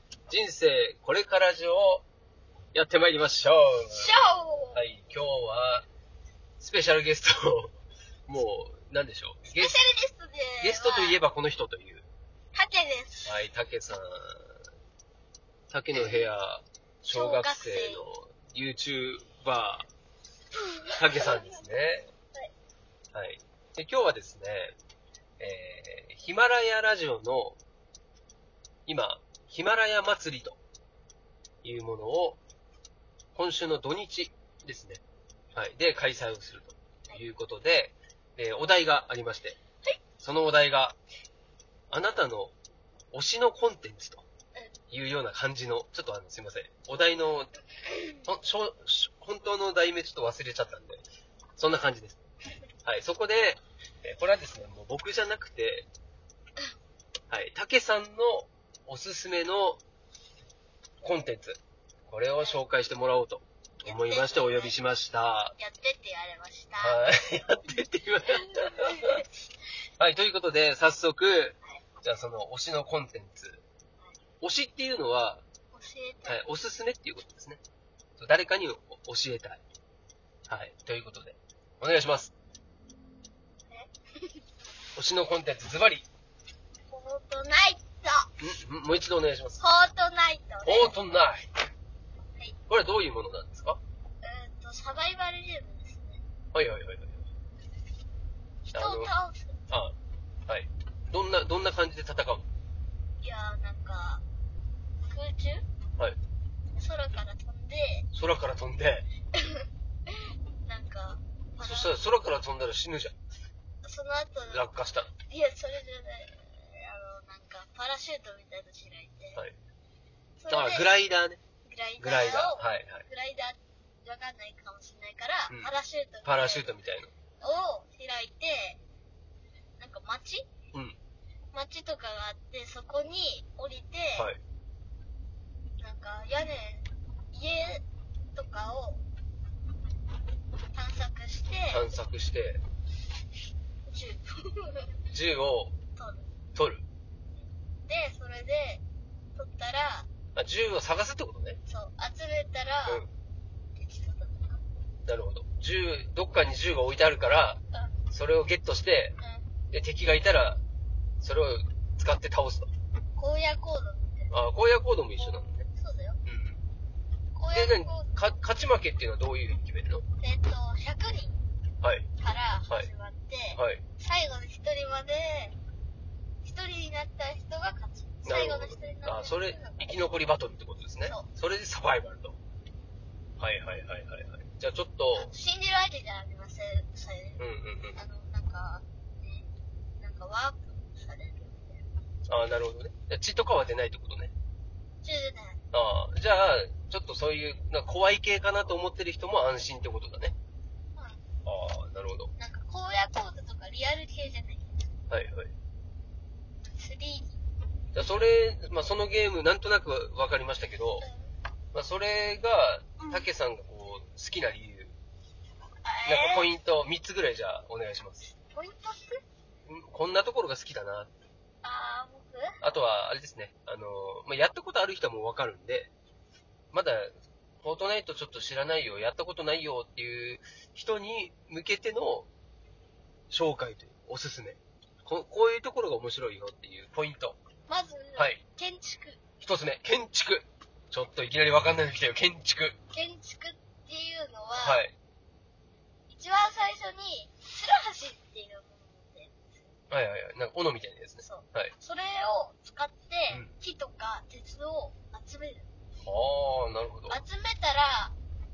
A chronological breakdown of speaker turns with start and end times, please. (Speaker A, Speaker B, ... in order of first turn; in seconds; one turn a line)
Speaker A: 0.3-2.0
Speaker A: 2.7-4.2
Speaker B: 3.9-4.8
Speaker A: 4.7-5.9
Speaker A: 6.6-7.7
Speaker A: 8.3-9.8
Speaker B: 9.4-11.2
Speaker A: 10.6-12.1
Speaker B: 12.5-13.3
Speaker A: 13.3-14.6
Speaker A: 15.7-19.9
Speaker B: 16.0-16.2
Speaker B: 17.1-18.0
Speaker B: 20.6-21.6
Speaker A: 20.9-22.1
Speaker A: 23.1-24.8
Speaker A: 25.4-27.6
Speaker A: 28.9-30.6
Speaker A: 31.6-32.4
Speaker A: 33.4-35.0
Speaker A: 35.5-39.6
Speaker A: 40.2-41.0
Speaker A: 41.9-42.5
Speaker A: 43.1-44.2
Speaker A: 44.9-47.5
Speaker A: 48.3-51.0
Speaker A: 51.6-52.2
Speaker A: 52.9-55.9
Speaker A: 57.3-59.8
Speaker A: 61.0-65.5
Speaker B: 63.8-64.8
Speaker B: 65.6-67.0
Speaker A: 66.8-69.2
Speaker B: 68.3-69.2
Speaker A: 70.0-73.6
Speaker A: 74.4-75.4
Speaker B: 75.7-76.4
Speaker A: 76.3-77.6
Speaker A: 78.2-79.6
Speaker A: 80.5-82.3
Speaker B: 83.7-84.4
Speaker A: 85.0-86.1
Speaker B: 86.9-88.3
Speaker A: 88.4-89.6
Speaker B: 89.6-91.0
Speaker A: 90.7-91.5
Speaker A: 92.7-93.8
Speaker B: 94.2-96.2
Speaker A: 96.5-97.2
Speaker B: 98.7-99.6
Speaker A: 98.7-99.1
Speaker A: 100.5-102.5
Speaker B: 103.2-104.2
Speaker B: 105.1-105.7
Speaker B: 106.8-108.1
Speaker A: 108.1-109.1
Speaker B: 109.3-112.0
Speaker A: 111.6-113.2
Speaker B: 113.8-119.4
Speaker A: 114.5-115.1
Speaker B: 120.4-121.0
Speaker A: 120.5-121.4
Speaker B: 121.6-126.7
Speaker A: 122.0-123.0
Speaker A: 126.2-127.1
Speaker B: 127.4-128.8
Speaker B: 129.8-130.5
Speaker B: 131.5-134.3
Speaker B: 135.8-139.0
Speaker B: 140.7-141.8
Speaker A: 141.7-142.6
Speaker B: 143.9-145.0
Speaker A: 145.1-145.8
Speaker B: 146.0-146.3
Speaker A: 146.6-146.8
Speaker B: 147.9-148.8
Speaker B: 149.3-150.1
Speaker A: 150.3-151.6
Speaker B: 151.7-153.0
Speaker B: 153.8-154.6
Speaker A: 155.1-157.6
Speaker A: 158.1-159.1
Speaker B: 159.2-159.5
Speaker A: 159.7-160.6
Speaker A: 161.2-162.7
Speaker B: 163.2-164.4
Speaker A: 164.3-165.7
Speaker B: 165.7-166.2
Speaker A: 166.3-166.6
Speaker B: 167.3-168.2
Speaker A: 167.5-170.0
Speaker B: 170.2-171.4
Speaker B: 172.2-175.6
Speaker A: 173.6-173.8
Speaker B: 176.4-180.1
Speaker A: 178.2-182.4
Speaker B: 181.0-181.3
Speaker A: 183.4-185.3
Speaker B: 185.1-187.4
Speaker A: 187.4-188.0
Speaker B: 187.9-189.5
Speaker B: 190.0-191.8
Speaker A: 192.3-194.3
Speaker B: 195.0-195.6
Speaker A: 195.7-200.3
Speaker B: 201.0-201.2
Speaker A: 201.4-202.3
Speaker B: 202.4-204.9
Speaker A: 205.1-205.5
Speaker B: 206.6-207.4
Speaker A: 207.9-211.1
Speaker B: 211.0-211.3
Speaker A: 211.7-214.9
Speaker B: 215.8-216.5
Speaker A: 216.1-218.3
Speaker B: 218.4-219.2
Speaker A: 219.7-221.1
Speaker B: 221.6-222.6
Speaker A: 222.6-225.9
Speaker A: 226.7-232.3
Speaker A: 233.3-237.4
Speaker B: 237.7-239.2
Speaker A: 239.4-242.8
Speaker B: 242.9-244.8
Speaker A: 244.6-244.9
Speaker B: 246.1-249.5
Speaker A: 249.9-251.7
Speaker B: 251.2-255.7
Speaker A: 256.0-257.2
Speaker B: 257.1-258.2